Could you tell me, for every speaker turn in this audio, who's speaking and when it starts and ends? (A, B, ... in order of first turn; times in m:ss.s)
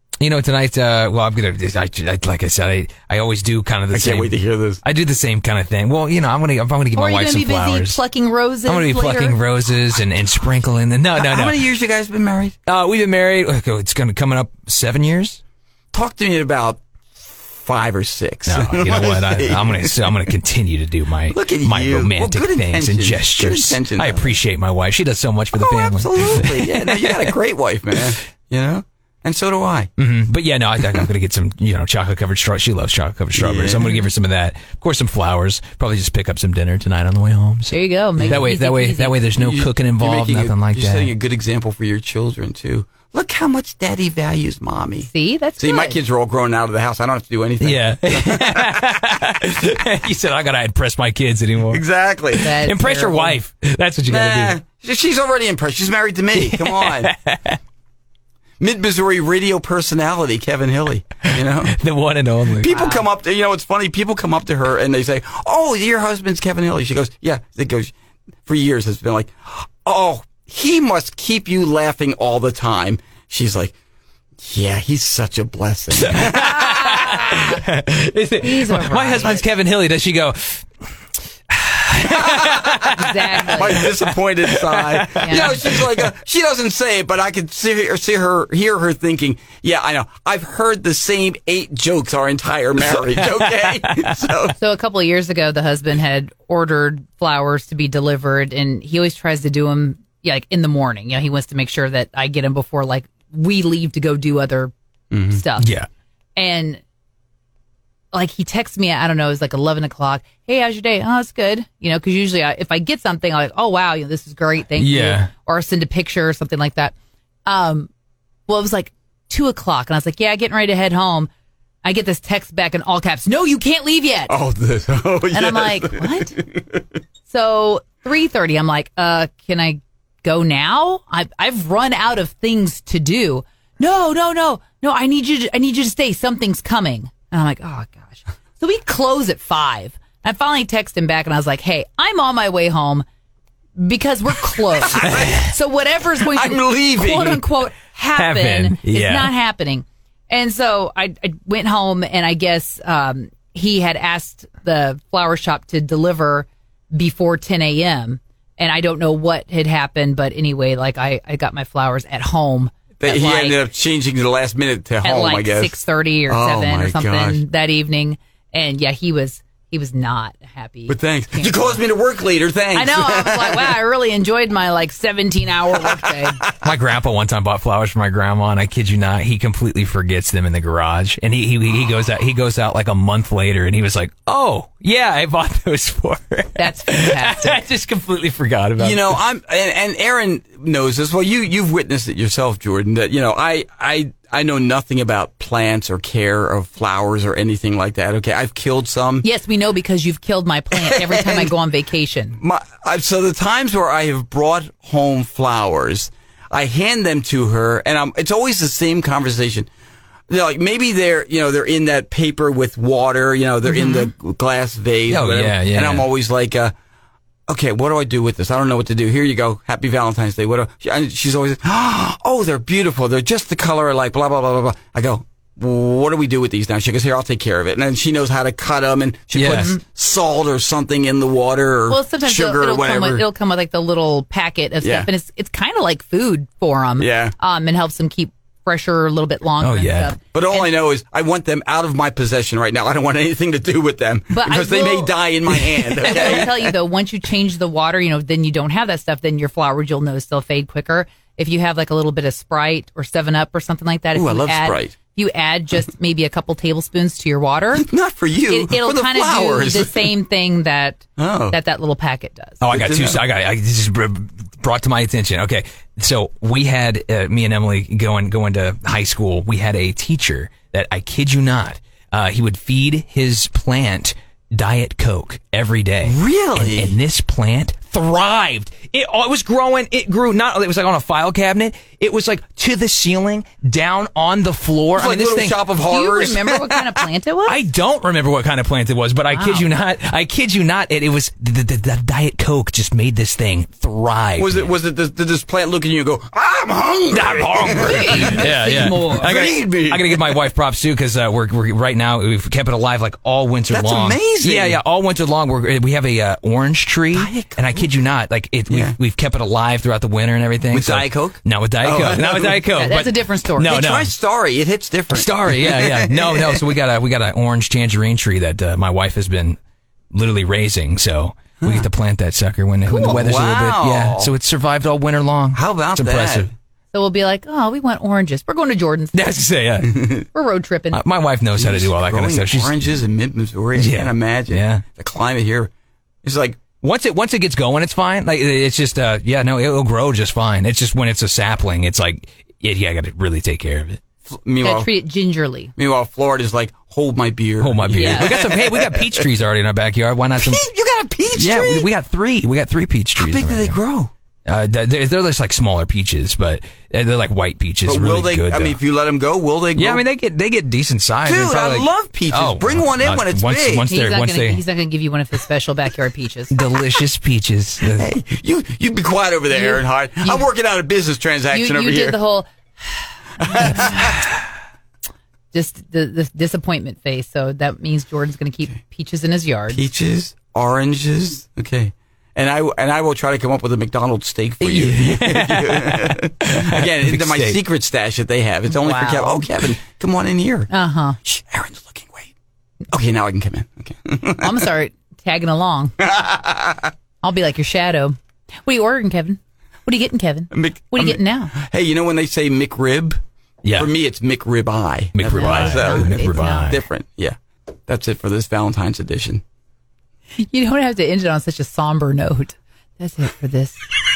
0:00.2-0:08.0 A
0:03.9-0:04.8 B
0:06.9-0:09.4 C
0:08.7-0:11.6 A
0:11.2-0:12.5 B
0:12.7-0:15.4 A
0:15.9-0:20.1 B
0:18.4-0:27.3 A
0:21.3-0:24.4 B
0:25.5-0:29.9 B
0:30.0-0:41.1 A
0:33.3-0:34.0 B
0:37.7-0:39.2 C
0:38.2-0:38.4 B
0:39.3-0:48.8 B
0:45.0-0:46.0 C
0:47.6-0:54.6 A
0:51.7-0:52.5 B
0:52.4-0:53.4 C
0:54.0-0:57.1 B
0:56.3-0:57.6 A
0:58.6-1:01.7 B
1:01.3-1:02.9 A
1:02.6-1:07.9 B
1:02.7-1:03.0 C
1:08.4-1:13.7 B
1:14.4-1:17.4 B
1:16.0-1:20.7 A
1:18.4-1:19.4 C
1:21.5-1:26.1 A
1:22.0-1:22.9 B
1:22.9-1:23.8 C
1:23.5-1:34.6 B
1:25.2-1:25.5 C
1:33.2-1:34.1 A
1:34.6-1:44.7 C
1:45.1-1:45.4 B
1:45.3-1:45.7 C
1:45.6-1:45.9 A
1:46.4-1:46.8 C
1:48.1-1:57.9 C
1:54.8-1:55.3 A
1:58.5-2:01.3 C
2:01.8-2:04.3 C
2:04.3-2:06.8 B
2:05.3-2:06.4 C
2:07.2-2:23.0 C
2:23.8-2:43.6 C
2:24.8-2:25.4 B
2:26.1-2:27.4 B
2:28.2-2:29.3 A
2:43.0-2:47.4 B
2:45.0-2:51.8 C
2:50.9-2:53.8 B
2:52.7-2:56.4 C
2:56.6-3:09.2 A
3:06.6-3:07.7 C
3:08.8-3:19.3 B
3:19.2-3:22.4 C
3:20.7-3:21.5 B
3:22.4-3:29.7 B
3:30.3-3:36.7 B
3:33.7-3:34.1 C
3:35.1-3:36.1 A
3:37.5-3:53.2 B
3:49.3-3:49.7 A
3:49.4-3:49.8 C
3:51.9-4:00.7 C
3:54.8-3:55.1 B
3:57.0-3:57.3 B
3:59.6-4:00.1 A
4:00.2-4:06.7 B
4:04.3-4:05.1 C
4:05.5-4:06.5 A
4:06.0-4:17.9 C
4:14.1-4:15.0 B
4:17.7-4:20.1 B
4:18.5-4:22.6 C
4:21.2-4:21.6 B
4:22.6-4:45.6 A
4:22.7-4:23.2 B
4:36.0-4:37.0 B
4:44.9-4:46.9 B
4:45.8-4:47.6 C
4:47.4-4:54.7 A
4:49.3-4:49.7 C
4:54.4-4:58.5 B
4:57.1-5:14.1 A
4:57.8-4:59.3 C
4:59.1-5:00.4 B
5:03.7-5:04.8 B
5:07.1-5:07.6 B
5:08.7-5:09.0 B
5:10.7-5:12.7 B
5:12.7-5:13.8 C
5:13.6-5:16.7 B
5:15.1-5:19.6 A
5:20.1-5:26.5 A
5:21.6-5:21.9 B
5:22.9-5:23.2 C
5:22.9-5:24.3 B
5:25.5-5:26.5 B
5:26.9-5:29.2 C
5:29.1-5:30.1 A
5:30.3-5:31.0 C
5:30.9-5:33.0 A
5:31.5-5:35.7 B
5:33.7-5:34.8 A
5:36.2-5:36.6 B
5:36.8-5:44.0 A
5:44.2-5:44.9 B
5:44.6-5:45.7 C
5:45.8-5:49.3 B
5:47.6-5:50.6 A
5:47.9-5:48.4 C
5:50.4-5:51.9 B
5:51.3-5:53.8 A
5:53.2-5:54.1 B
5:54.4-5:58.8 A
5:57.8-6:00.0 B
5:59.7-6:04.6 A
6:01.2-6:03.9 B
6:03.8-6:06.6 C
6:06.5-6:08.1 A
6:08.0-6:12.2 B
6:09.5-6:10.5 C
6:11.5-6:12.5 C
6:13.4-6:14.2 B
6:13.4-6:14.0 C
6:15.5-6:19.8 C
6:19.7-6:30.7 B
6:24.6-6:27.6 A
6:28.7-6:29.5 C
6:30.7-6:31.2 C
6:31.2-6:32.3 B
6:32.9-6:34.7 B
6:34.4-6:36.0 C
6:36.0-6:36.9 B
6:37.2-6:41.5 C
6:40.5-6:43.2 B
6:43.6-6:43.9 A
6:43.7-6:49.4 B
6:45.1-6:46.8 A
6:45.3-6:46.7 C
6:50.4-6:53.8 C